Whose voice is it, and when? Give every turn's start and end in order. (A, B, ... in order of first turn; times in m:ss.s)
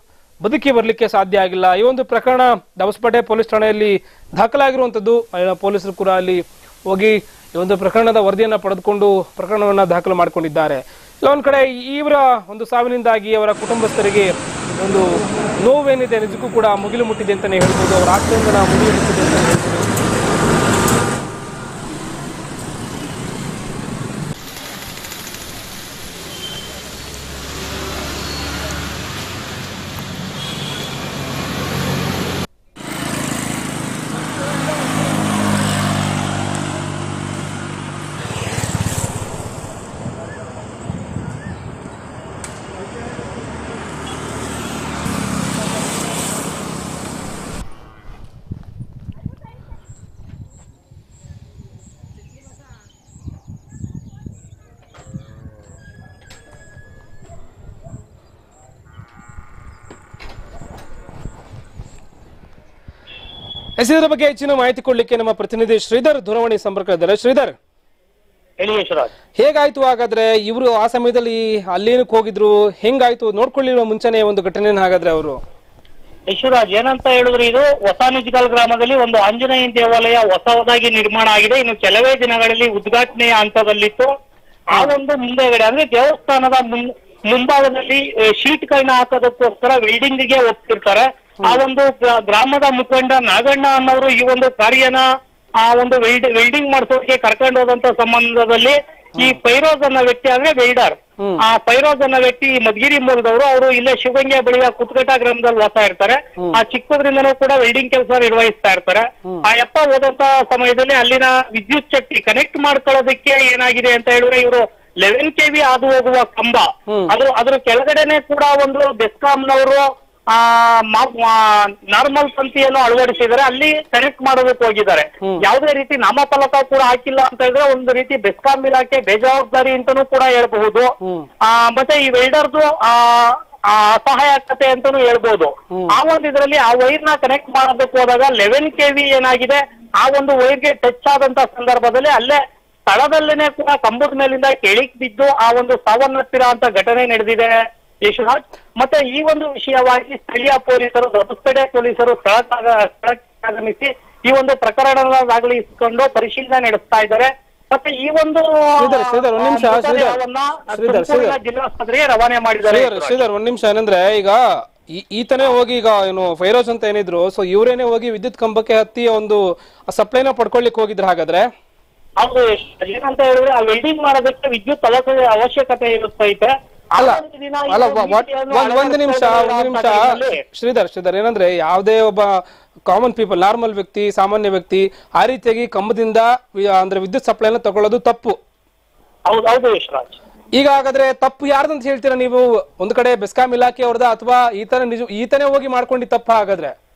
0:00.4-0:19.9 A
1:03.8-1:07.5 A
1:08.6-1:09.1 B
1:09.4-1:15.4 A
1:16.3-1:24.1 B
1:24.7-1:35.0 B
1:35.6-2:10.9 B
2:11.4-2:43.2 B
2:38.8-2:40.2 A
2:40.7-2:41.4 A
2:42.6-2:44.4 A
2:44.9-2:51.5 A
2:52.2-3:00.4 B
2:57.0-3:08.4 A
3:09.3-3:10.1 B
3:10.5-3:16.7 A